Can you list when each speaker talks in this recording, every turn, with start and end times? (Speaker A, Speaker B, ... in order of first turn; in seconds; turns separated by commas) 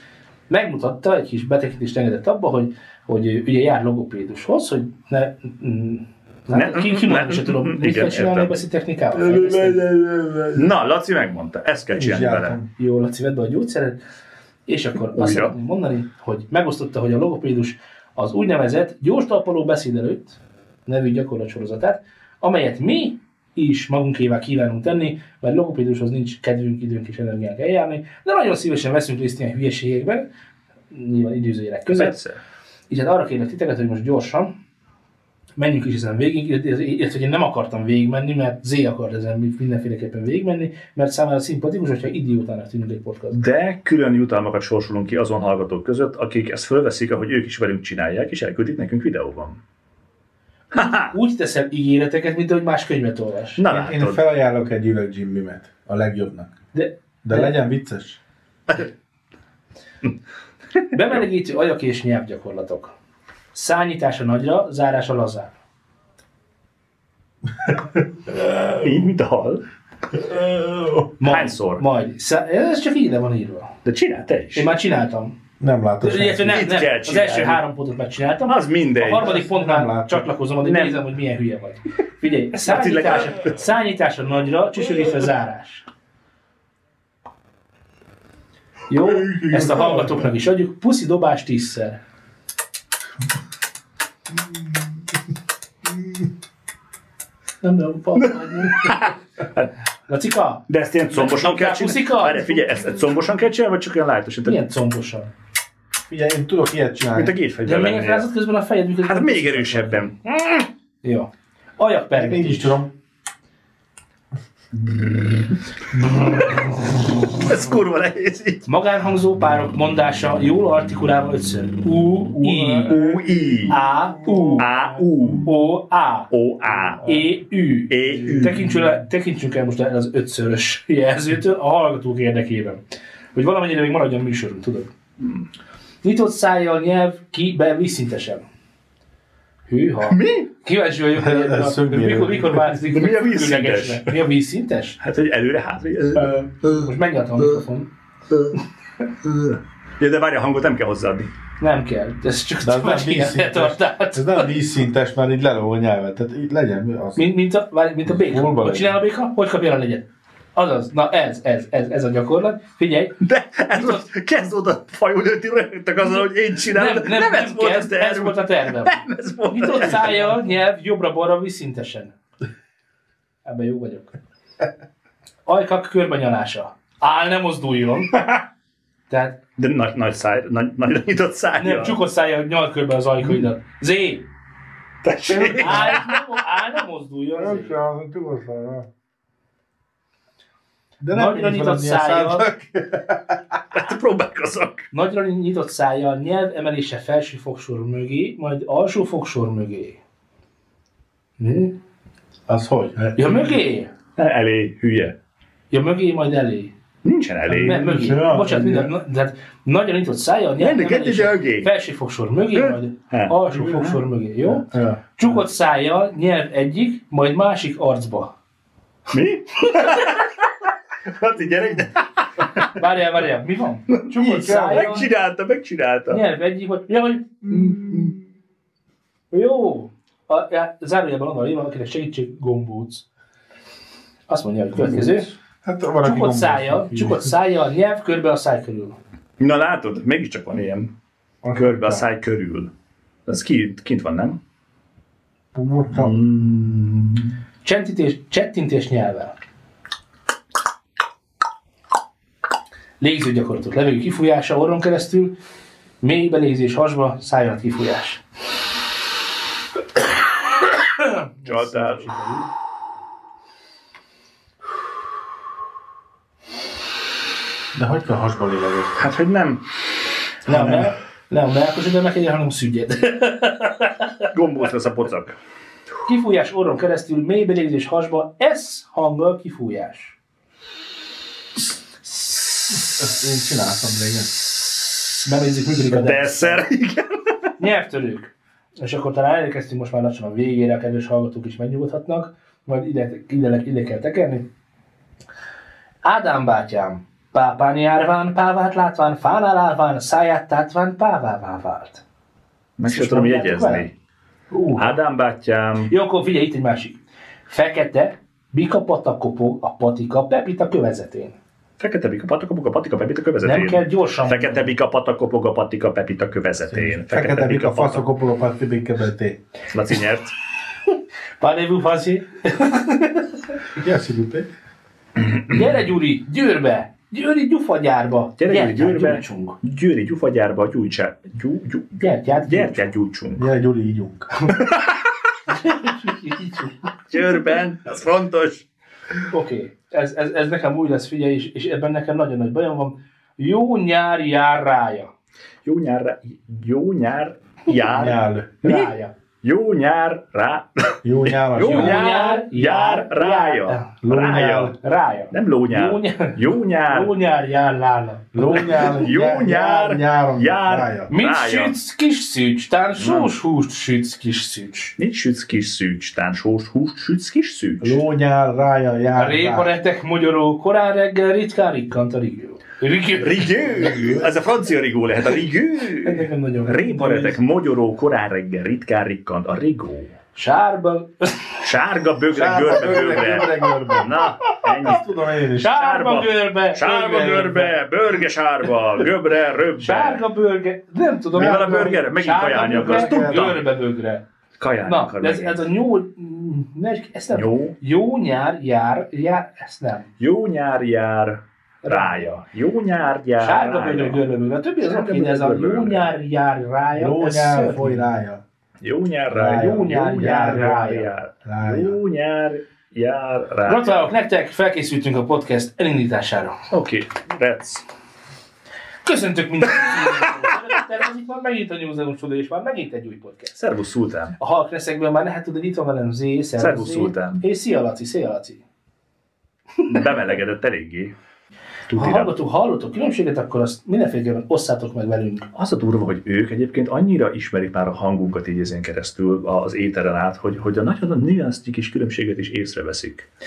Speaker A: 0.5-9.8, Speaker B: 6.5-8.6, Speaker B: 9.2-12.6, Speaker C: 10.3-10.6, Speaker C: 11.9-12.7, Speaker A: 12.8-14.0, Speaker A: 14.7-30.3, Speaker B: 15.1-15.5, Speaker A: 30.9-32.2, Speaker B: 31.9-32.4, Speaker A: 32.9-34.5, Speaker A: 35.6-43.4, Speaker B: 43.3-49.6, Speaker A: 50.7-53.6, Speaker B: 50.7-51.1, Speaker B: 53.6-54.2, Speaker C: 53.7-56.5, Speaker A: 56.7-57.5, Speaker C: 57.2-58.2, Speaker A: 60.9-62.9, Speaker A: 63.5-65.5, Speaker B: 68.6-69.6, Speaker C: 70.3-71.0, Speaker A: 71.2-73.7, Speaker B: 71.2-71.8, Speaker B: 73.8-74.7, Speaker A: 74.5-75.3, Speaker C: 75.6-76.7, Speaker A: 76.0-85.9, Speaker B: 76.5-77.6, Speaker B: 78.5-79.4, Speaker C: 79.2-80.3, Speaker B: 80.6-81.0, Speaker B: 82.6-83.5, Speaker A: 88.9-92.0, Speaker C: 89.2-90.3, Speaker C: 94.4-94.8, Speaker A: 97.6-99.1, Speaker B: 98.2-99.7, Speaker A: 100.1-102.7, Speaker B: 100.7-104.6, Speaker A: 104.4-105.3, Speaker C: 106.1-107.3, Speaker B: 107.1-108.3, Speaker A: 107.6-110.1, Speaker B: 109.1-110.2, Speaker A: 111.0-112.8, Speaker C: 112.2-112.9, Speaker B: 114.8-115.5, Speaker B: 116.2-118.6, Speaker A: 118.7-123.0, Speaker C: 122.4-124.8, Speaker B: 122.8-123.8, Speaker A: 123.7-124.7, Speaker B: 124.5-125.5, Speaker A: 125.4-126.3, Speaker B: 126.3-127.1, Speaker A: 127.0-132.8, Speaker B: 127.9-128.7, Speaker A: 133.3-134.9, Speaker A: 136.0-138.4, Speaker A: 139.7-145.0, Speaker B: 140.1-140.5, Speaker C: 141.1-142.8, Speaker B: 142.9-144.2, Speaker B: 145.0-146.3, Speaker C: 146.2-146.8, Speaker A: 146.6-147.9, Speaker B: 149.2-151.3, Speaker A: 151.6-154.5, Speaker C: 152.6-157.3, Speaker A: 157.2-163.2, Speaker C: 158.1-159.0, Speaker B: 163.2-170.4, Speaker A: 163.7-164.0, Speaker A: 166.7-172.1, Speaker A: 173.4-174.1, Speaker A: 175.4-178.3, Speaker A: 179.1-179.4, Speaker B: 179.6-182.0, Speaker A: 181.6-184.2, Speaker B: 185.0-186.2, Speaker C: 185.3-186.0, Speaker A: 185.6-187.8, Speaker C: 187.4-188.9, Speaker C: 191.0-193.4, Speaker A: 191.1-192.5, Speaker B: 193.7-194.9, Speaker A: 194.9-200.0, Speaker A: 201.4-201.8, Speaker C: 202.5-203.4, Speaker A: 203.2-203.9, Speaker B: 204.2-205.2, Speaker A: 205.7-206.7, Speaker B: 207.0-207.8, Speaker C: 207.5-208.9, Speaker A: 207.6-218.3, Speaker B: 210.6-211.7, Speaker B: 212.5-214.0, Speaker C: 214.7-215.0, Speaker B: 219.1-220.5, Speaker B: 221.1-222.7, Speaker A: 222.6-225.1, Speaker B: 223.9-226.2, Speaker C: 224.1-225.0, Speaker A: 226.1-227.5, Speaker C: 227.4-228.1, Speaker B: 227.6-228.1, Speaker A: 229.3-233.1, Speaker A: 234.3-235.3, Speaker C: 234.7-237.3, Speaker A: 236.0-239.0, Speaker B: 239.4-240.9, Speaker C: 241.4-242.0, Speaker B: 241.5-242.7, Speaker B: 243.2-244.4, Speaker C: 245.5-246.2, Speaker B: 245.9-247.3, Speaker A: 247.6-249.3, Speaker A: 253.0-255.4, Speaker A: 256.0-258.2, Speaker A: 260.8-262.5, Speaker B: 261.4-262.1, Speaker C: 267.7-269.1, Speaker B: 269.0-269.6, Speaker A: 270.4-274.1, Speaker C: 270.5-270.9, Speaker B: 274.3-275.4, Speaker A: 276.1-280.1, Speaker C: 282.8-284.4, Speaker A: 285.2-286.6, Speaker B: 285.8-287.2, Speaker A: 287.6-294.4, Speaker A: 296.0-302.0, Speaker B: 302.8-303.9, Speaker A: 302.9-303.9, Speaker A: 304.5-305.0, Speaker B: 304.8-305.9, Speaker A: 305.9-311.4, Speaker B: 311.8-318.1, Speaker A: 313.4-314.7, Speaker C: 316.7-319.4, Speaker B: 319.7-320.3, Speaker A: 321.4-323.3, Speaker C: 323.7-324.5, Speaker A: 325.4-329.6, Speaker B: 328.4-333.4, Speaker A: 332.0-332.9, Speaker C: 333.3-334.5, Speaker B: 334.6-334.9, Speaker A: 335.5-336.9, Speaker B: 337.1-338.6, Speaker A: 339.2-345.1, Speaker B: 345.6-354.8, Speaker C: 347.9-348.5, Speaker A: 348.6-349.1, Speaker C: 351.0-352.1, Speaker A: 351.6-353.9, Speaker C: 354.0-354.8, Speaker A: 354.8-359.0, Speaker B: 355.3-357.1, Speaker C: 358.3-361.1, Speaker B: 358.5-361.8, Speaker A: 361.1-364.9, Speaker B: 362.9-363.3, Speaker B: 365.0-368.0, Speaker C: 367.8-369.7, Speaker A: 369.1-373.5, Speaker B: 373.2-380.1, Speaker C: 373.8-374.3, Speaker A: 376.0-377.4, Speaker A: 380.3-381.6, Speaker B: 381.6-390.2, Speaker C: 382.3-384.1, Speaker A: 384.4-384.8, Speaker C: 384.8-385.7, Speaker A: 385.5-386.9, Speaker C: 386.8-387.8, Speaker A: 389.8-394.2, Speaker B: 391.3-393.6, Speaker C: 391.4-392.0, Speaker C: 392.6-393.5, Speaker B: 394.6-395.7, Speaker A: 394.8-400.1, Speaker B: 397.3-397.7, Speaker B: 400.2-404.2, Speaker A: 401.8-402.4, Speaker A: 403.4-408.0, Speaker B: 404.8-406.1, Speaker C: 406.9-408.4, Speaker B: 408.8-414.1, Speaker C: 409.3-410.8, Speaker A: 409.6-411.1, Speaker C: 411.4-412.0, Speaker A: 413.6-416.6, Speaker B: 416.7-417.8, Speaker A: 419.0-423.6, Speaker B: 419.8-420.5, Speaker B: 423.6-424.4, Speaker A: 424.4-428.6, Speaker B: 426.6-427.4, Speaker B: 429.9-431.1, Speaker B: 431.9-432.3, Speaker A: 431.9-435.5, Speaker B: 435.5-443.3